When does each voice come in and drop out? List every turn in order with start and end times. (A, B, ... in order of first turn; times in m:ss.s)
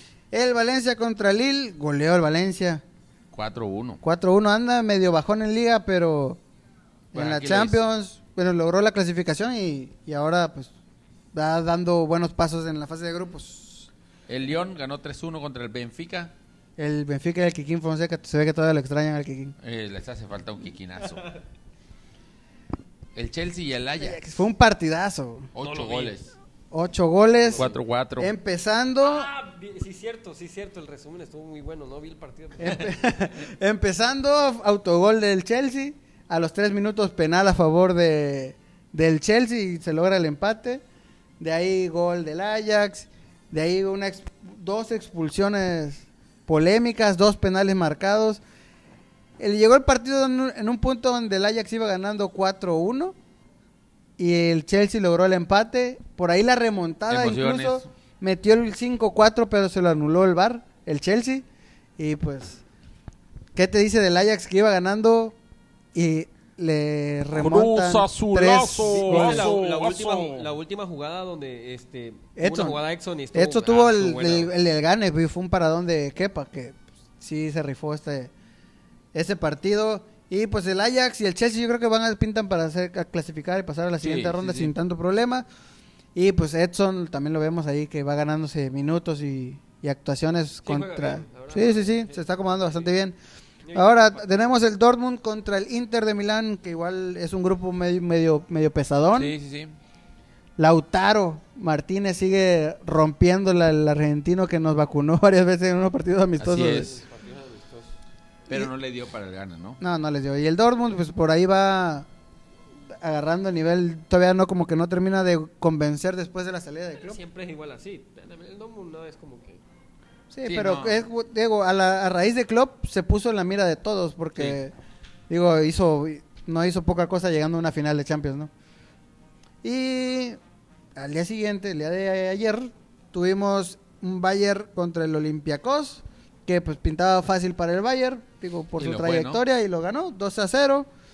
0:00.3-0:02.8 A
0:03.3-0:04.0 B
0:04.0-0:06.4 A
0:07.1-0:07.8 B
0:07.1-0:10.7 A
0:11.3-0:13.9 A
0:14.3-0:16.3 B
0:16.8-0:19.6 A
0:19.6-0:21.3 B
0:23.1-0:24.4 B
0:24.0-0:25.5 A
0:25.6-0:26.3 B
0:25.6-0:26.2 C
0:26.7-0:29.3 A
0:27.4-0:27.8 C
0:27.6-0:28.3 B
0:29.0-0:33.0 C
0:32.6-0:40.8 A
0:41.4-0:48.4 A
0:49.4-0:53.2 A
0:54.2-1:01.4 A
0:57.1-0:57.9 B
1:02.0-1:02.6 A
1:03.6-1:05.4 A
1:05.9-1:09.5 A
1:07.4-1:10.5 B
1:08.8-1:14.5 C
1:12.4-1:12.8 A
1:13.3-1:18.3 A
1:19.1-1:25.5 A
1:24.0-1:24.7 B
1:26.2-1:33.2 A
1:30.7-1:32.9 C
1:33.6-1:34.6 C
1:33.7-1:39.3 A
1:39.1-1:39.8 B
1:40.6-1:46.9 A
1:46.4-1:47.0 B
1:46.6-1:47.9 C
1:48.5-1:49.8 B
1:49.8-1:52.1 A
1:53.0-1:57.2 A
1:57.0-1:59.6 C
2:00.3-2:04.7 A
2:00.4-2:01.1 B
2:05.3-2:08.5 A
2:09.6-2:10.4 A
2:11.0-2:20.9 A
2:18.8-2:19.4 B